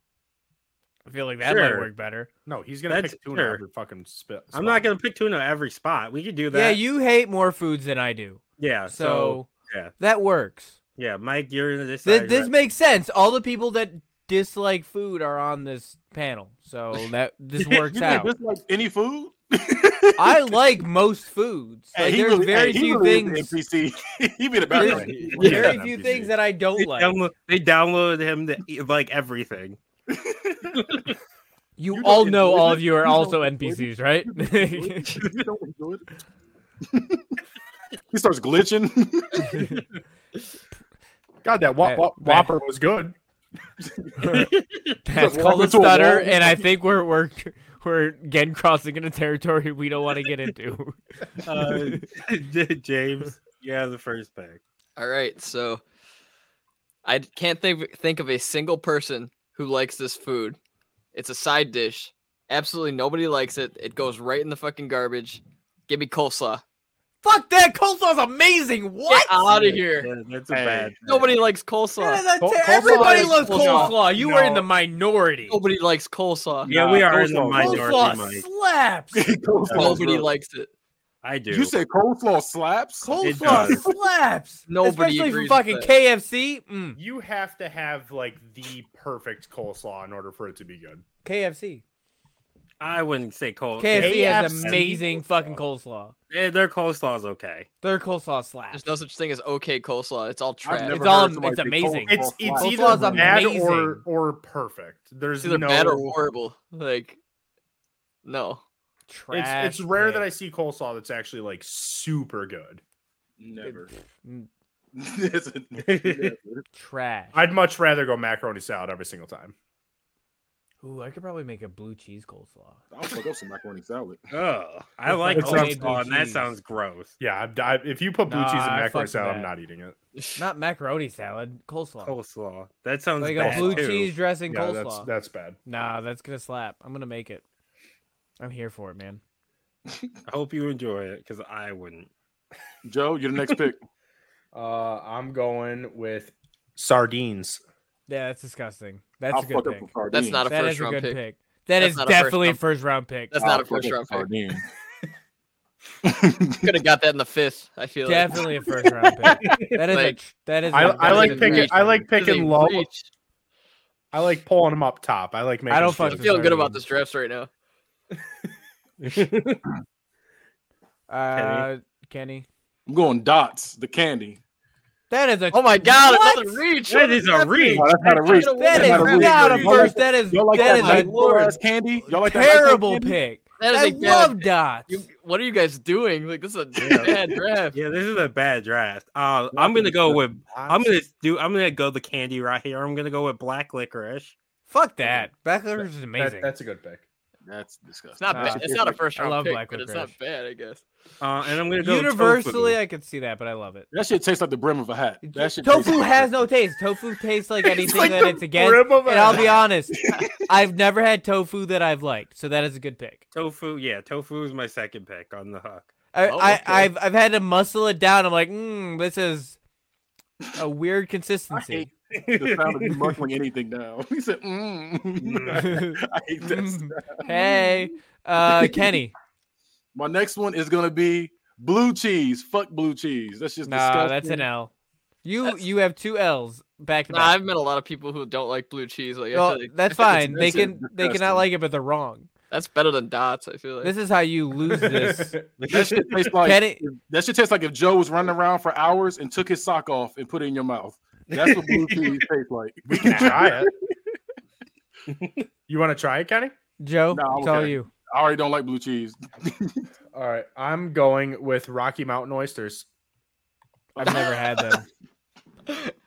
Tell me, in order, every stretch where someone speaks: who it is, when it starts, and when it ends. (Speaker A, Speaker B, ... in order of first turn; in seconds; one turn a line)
Speaker A: 1.0-2.3
Speaker B: 1.4-1.9
Speaker C: 2.5-4.9
Speaker B: 2.9-3.6
Speaker B: 4.5-6.8
Speaker A: 6.5-9.5
Speaker B: 8.6-9.9
Speaker A: 10.0-10.8
Speaker B: 10.9-12.5
Speaker A: 12.0-18.3
Speaker D: 17.7-20.6
Speaker A: 20.2-23.6
Speaker D: 21.9-25.8
Speaker A: 24.7-27.2
Speaker C: 24.8-26.3
Speaker B: 25.4-25.7
Speaker B: 26.8-29.8
Speaker D: 30.1-30.8
Speaker B: 30.7-31.1
Speaker A: 31.8-35.2
Speaker D: 31.9-36.2
Speaker B: 35.2-35.5
Speaker D: 36.9-37.2
Speaker D: 38.1-39.6
Speaker B: 39.6-40.0
Speaker C: 41.4-43.1
Speaker A: 41.8-42.5
Speaker D: 43.8-44.4
Speaker A: 44.2-44.5
Speaker B: 44.2-45.0
Speaker A: 45.0-51.0
Speaker D: 45.1-46.6
Speaker B: 51.4-54.6
Speaker A: 51.6-52.0
Speaker E: 55.0-55.8
Speaker E: 57.0-60.6
Speaker E: 61.1-66.6
Speaker A: 67.2-69.4
Speaker E: 69.1-70.1
Speaker B: 69.5-71.0
Speaker D: 70.5-71.2
Speaker E: 71.0-73.9
Speaker A: 72.0-75.6
Speaker C: 72.4-74.7
Speaker E: 75.5-76.7
Speaker D: 76.6-77.9
Speaker B: 76.7-78.4
Speaker A: 77.3-79.2
Speaker D: 79.1-80.3
Speaker B: 79.7-80.0
Speaker E: 79.7-80.7
Speaker B: 81.2-81.7
Speaker D: 81.5-83.9
Speaker A: 83.0-87.0
Speaker B: 83.2-83.8
Speaker E: 84.7-85.9
Speaker C: 87.0-91.0
Speaker A: 91.2-91.8
Speaker B: 92.8-94.9
Speaker A: 93.8-96.1
Speaker C: 93.9-95.2
Speaker B: 96.3-97.7
Speaker A: 97.8-98.9
Speaker E: 98.7-101.1
Speaker D: 100.6-103.4
Speaker A: 100.9-104.0
Speaker C: 102.1-106.2
Speaker E: 105.4-107.2
Speaker E: 108.2-108.6
Speaker A: 109.1-110.3
Speaker C: 109.3-112.8
Speaker D: 113.4-113.9
Speaker A: 113.6-114.5
Speaker D: 114.9-116.6
Speaker B: 115.8-116.3
Speaker A: 116.7-117.4
Speaker C: 117.3-119.5
Speaker A: 120.8-122.8
Speaker D: 122.9-124.2
Speaker B: 124.3-127.1
Speaker A: 125.1-126.5
Speaker C: 125.3-126.0
Speaker C: 127.2-129.9
Speaker A: 128.3-129.5
Speaker A: 130.4-132.1
Speaker B: 132.0-134.1
Speaker A: 133.2-135.1
Speaker C: 133.4-133.8
Speaker C: 134.5-135.6
Speaker A: 135.7-137.4
Speaker A: 138.4-139.2
Speaker B: 140.2-142.1
Speaker D: 142.8-143.8
Speaker C: 144.5-147.6
Speaker A: 148.1-149.9
Speaker D: 149.3-150.4
Speaker E: 150.1-151.2
Speaker A: 150.5-153.3
Speaker E: 151.8-152.6
Speaker E: 153.3-154.3
Speaker D: 153.4-154.6
Speaker D: 156.0-156.7
Speaker E: 156.6-158.5
Speaker A: 158.1-161.7
Speaker E: 159.8-160.2
Speaker C: 160.7-162.9
Speaker E: 160.8-163.1
Speaker C: 164.1-166.3
Speaker A: 165.7-166.8
Speaker E: 166.1-167.5
Speaker B: 169.0-169.6
Speaker A: 171.1-172.4
Speaker B: 171.3-171.7
Speaker D: 172.9-174.4
Speaker A: 175.1-176.6
Speaker E: 175.5-179.9
Speaker B: 176.9-179.6
Speaker D: 177.7-183.2
Speaker A: 178.0-181.2
Speaker B: 180.6-181.5
Speaker A: 182.1-184.9
Speaker E: 183.6-187.8
Speaker B: 186.8-187.2
Speaker B: 187.7-194.3
Speaker C: 189.5-190.9
Speaker A: 194.7-196.5
Speaker C: 196.2-197.0
Speaker D: 197.4-199.1
Speaker E: 198.2-200.8
Speaker A: 198.3-200.1
Speaker B: 201.2-202.8
Speaker A: 201.8-203.9
Speaker D: 203.9-206.5
Speaker A: 205.2-209.9
Speaker D: 207.8-208.3
Speaker C: 207.9-209.6
Speaker D: 209.9-210.3
Speaker A: 210.5-213.2
Speaker B: 213.3-215.9
Speaker A: 216.1-219.6
Speaker D: 216.3-216.9
Speaker A: 220.6-221.9
Speaker D: 221.5-227.8
Speaker B: 222.1-223.2
Speaker B: 225.2-225.7
Speaker A: 225.6-229.1
Speaker D: 228.4-228.9
Speaker D: 229.9-234.5
Speaker A: 233.7-234.7
Speaker A: 235.2-237.4
Speaker E: 237.1-239.8
Speaker A: 239.3-242.3
Speaker D: 240.1-241.4
Speaker E: 242.5-243.9
Speaker A: 243.8-245.3
Speaker C: 244.8-245.5
Speaker B: 245.6-246.3
Speaker D: 245.7-253.7
Speaker A: 246.4-246.8
Speaker B: 251.3-252.2
Speaker C: 252.9-253.7
Speaker B: 253.1-253.3
Speaker B: 255.1-255.4
Speaker C: 255.7-256.5
Speaker A: 256.8-257.9
Speaker D: 257.1-259.9
Speaker C: 260.1-262.9
Speaker A: 263.9-264.9
Speaker E: 264.0-264.8
Speaker E: 265.7-265.9